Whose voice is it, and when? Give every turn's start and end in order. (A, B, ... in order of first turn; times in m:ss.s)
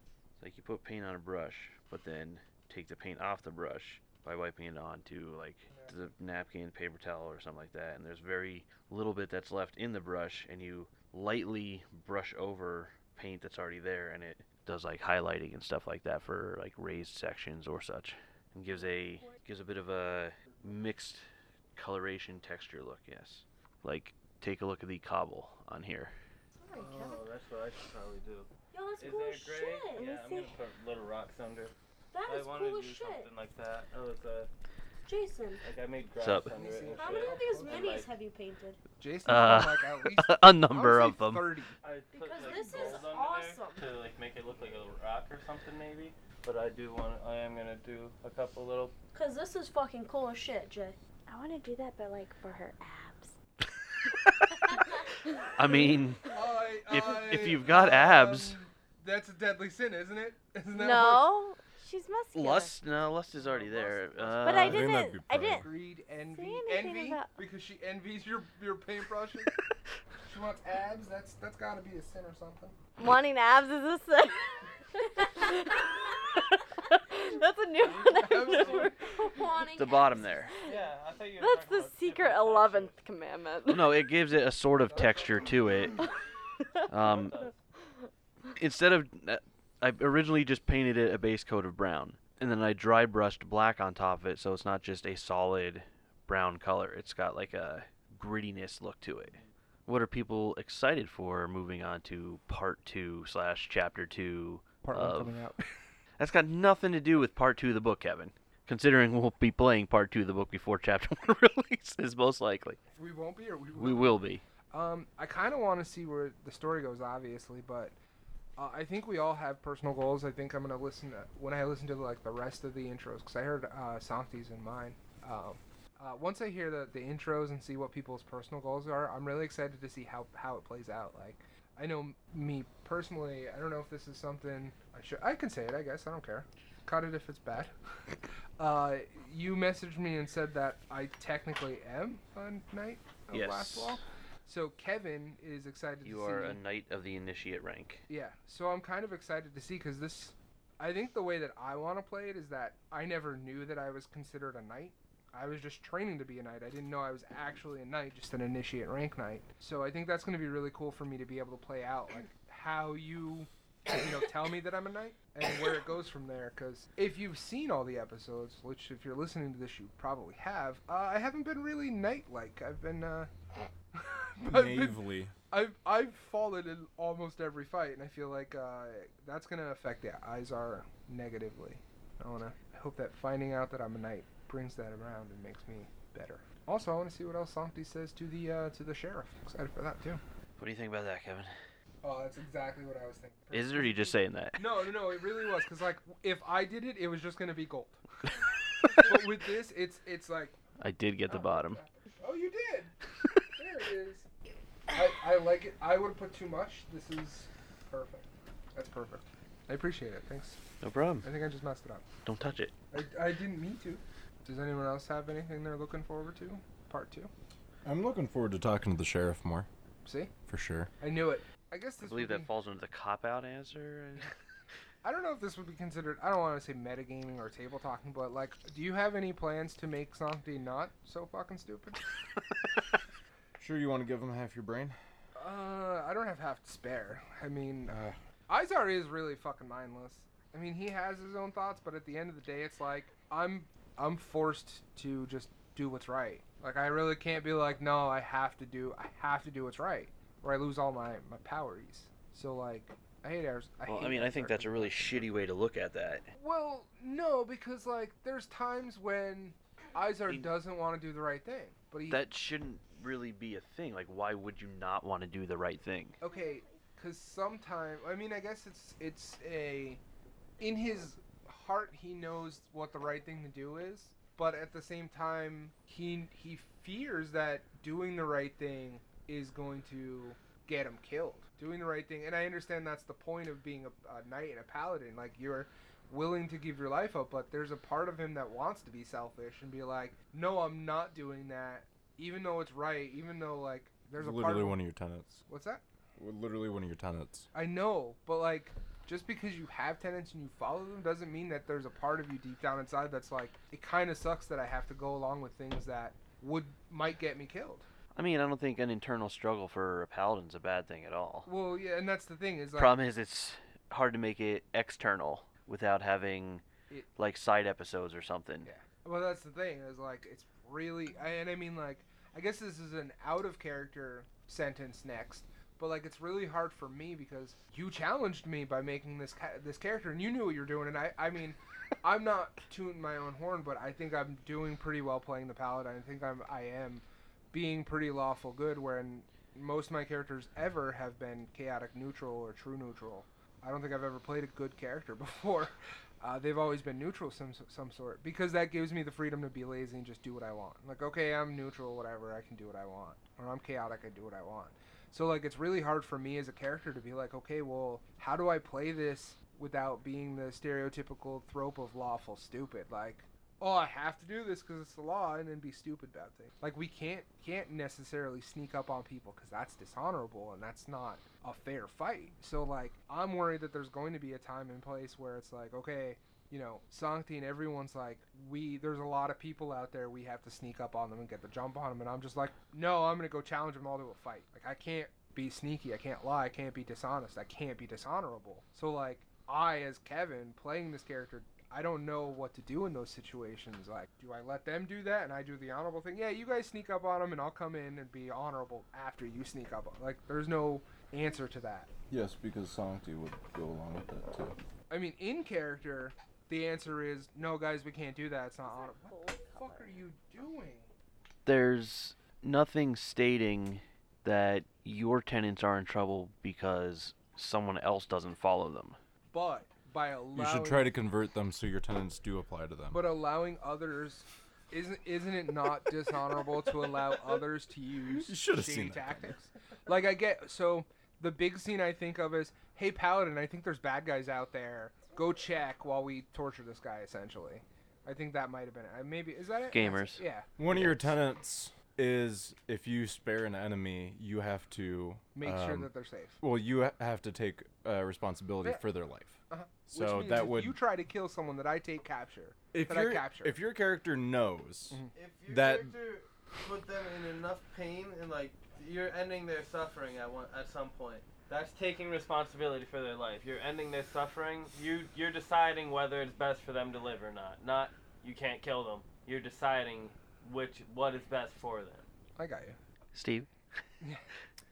0:00.4-0:26.1 A
0:05.7-0:06.0 B
0:18.7-0:19.4 C
0:20.4-0:20.8 B
0:26.6-0:27.2 C
0:26.8-0:27.2 B
0:26.8-0:28.5 D
0:28.7-0:30.1 C
0:29.0-0:31.7 D
0:29.9-0:30.5 E
0:32.1-0:33.3 C
0:32.3-0:34.5 D
0:35.0-0:35.6 C
0:35.6-0:38.1 D
0:36.2-0:36.5 A
0:36.5-0:38.0 B
0:37.0-0:38.8 C
0:39.0-0:41.8 B
0:39.2-0:41.5 A
0:41.8-0:48.9 D
0:42.1-0:43.9 C
0:42.5-0:43.0 B
0:49.1-0:51.0 C
0:51.3-0:53.3 E
0:55.6-0:56.2 A
0:56.3-1:01.3 B
0:56.9-0:58.6 A
1:00.7-1:02.7 E
1:02.3-1:04.9 A
1:03.3-1:09.5 B
1:04.4-1:05.6 E
1:04.5-1:05.7 F
1:06.3-1:07.4 E
1:10.2-1:12.8 B
1:13.0-1:19.7 E
1:17.8-1:18.9 D
1:17.8-1:19.0 B
1:18.8-1:20.5 C
1:19.8-1:20.5 A
1:20.5-1:24.0 E
1:20.6-1:23.0 D
1:23.7-1:26.0 A
1:24.8-1:26.0 B
1:26.6-1:26.9 E
1:26.9-1:27.4 A
1:27.0-1:27.6 D
1:28.6-1:45.4 A
1:44.8-1:45.6 B
1:46.2-1:52.8 A
1:52.9-1:54.2 B
1:53.8-1:54.4 A
1:54.7-1:57.9 B
1:58.6-2:17.7 B
2:18.6-2:26.6 B
2:23.3-2:24.0 A
2:26.0-2:28.0 A
2:28.1-2:53.3 B
2:53.9-3:10.2 B
2:54.4-2:55.3 F
3:10.6-3:11.5 A
3:12.0-3:18.0 B
3:13.5-3:14.6 A
3:18.9-3:20.6 B
3:20.8-3:21.8 A
3:21.3-3:22.9 B
3:23.6-3:24.3 B
3:24.9-3:30.6 B
3:30.8-3:31.2 A
3:31.2-3:32.0 B
3:32.2-3:32.7 A
3:32.9-3:37.3 B
3:37.8-3:39.7 F
3:40.0-3:40.3 B
3:40.5-3:40.9 F
3:41.0-3:42.5 B
3:42.0-3:44.3 A
3:45.0-3:52.0 B
3:53.6-3:55.0 F
3:55.3-4:15.3 B
3:57.9-3:58.2 F
4:13.8-4:16.2 A
4:16.3-4:22.2 B
4:22.1-4:26.2 A
4:26.2-4:30.0 B
4:30.6-4:54.8 B
4:54.2-4:55.4 F
4:55.5-4:55.8 B
4:56.2-4:57.5 F
4:57.5-5:07.9 B
5:08.1-5:11.5 A
5:11.4-5:13.0 B
5:12.8-5:16.6 A
5:17.2-5:18.7 A
5:18.6-6:41.9 B
6:42.1-6:44.6 F
6:44.9-6:50.9 B
6:48.6-6:50.0 E
6:51.4-6:59.0 A
6:59.3-7:01.0 B
7:00.3-7:03.0 F
7:02.9-7:20.5 B
7:08.2-7:09.3 F
7:19.7-7:21.0 A
7:20.6-7:25.9 F
7:25.3-7:26.4 B
7:26.4-7:30.8 F
7:29.5-7:33.6 B
7:32.7-7:36.0 F
7:35.1-7:52.0 D
7:52.4-7:52.8 B
7:53.1-7:53.5 A